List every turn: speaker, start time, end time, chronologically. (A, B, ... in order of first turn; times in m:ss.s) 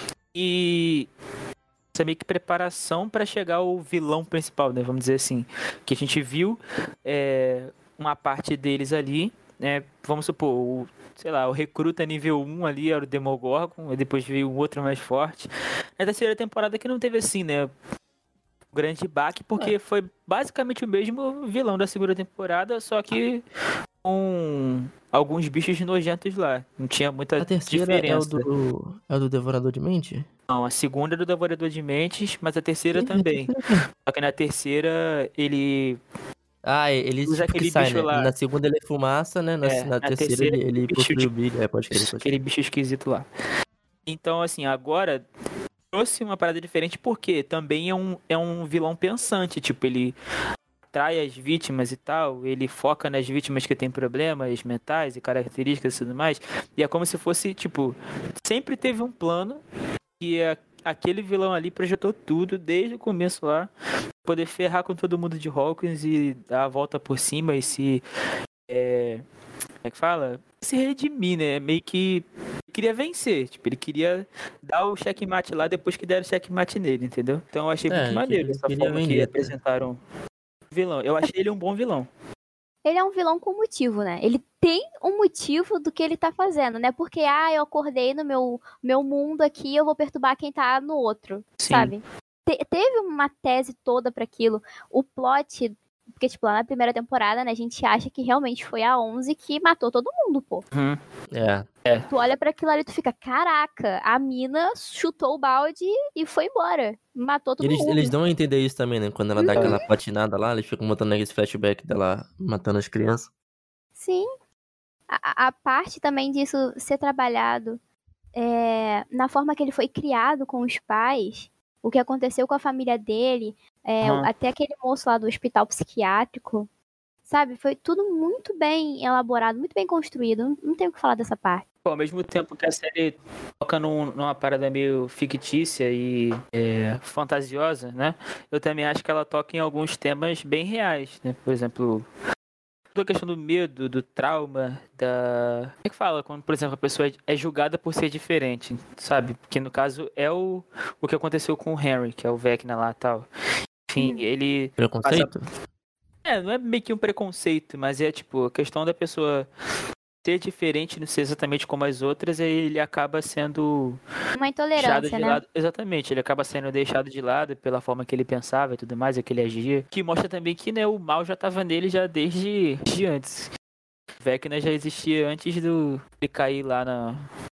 0:00.3-0:01.1 A
0:01.9-0:17.7 A
0:18.7-0:23.4 A
0:24.0-0:28.5 A
0:27.4-0:30.3 B
0:30.5-0:36.0 A
0:33.0-0:33.8 B
0:36.6-0:42.3 B
0:37.3-0:38.3 A
0:39.6-0:41.3 A
0:41.9-0:43.3 A
0:44.1-0:45.3 A
0:45.9-0:50.2 A
0:50.9-0:59.6 A
1:00.2-1:03.7 A
1:04.2-1:08.0 A
1:08.7-1:09.2 A
1:09.8-1:20.0 A
1:17.9-1:19.5 B
1:20.7-1:22.1 A
1:22.8-1:40.6 C
1:31.6-1:31.9 A
1:40.7-1:41.0 A
1:41.3-1:41.7 B
1:42.1-1:48.1 C
1:47.6-1:53.3 B
1:49.4-1:49.8 C
1:54.0-1:54.3 C
1:55.1-1:57.8 C
1:58.4-2:06.7 C
2:04.0-2:04.3 A
2:07.3-2:11.6 C
2:11.8-2:22.1 A
2:23.0-2:33.3 A
2:33.9-2:35.3 A
2:34.8-2:35.5 B
2:36.2-2:39.5 A
2:40.2-2:44.0 A
2:44.4-2:45.4 C
2:44.8-2:53.5 A
2:54.2-2:57.2 A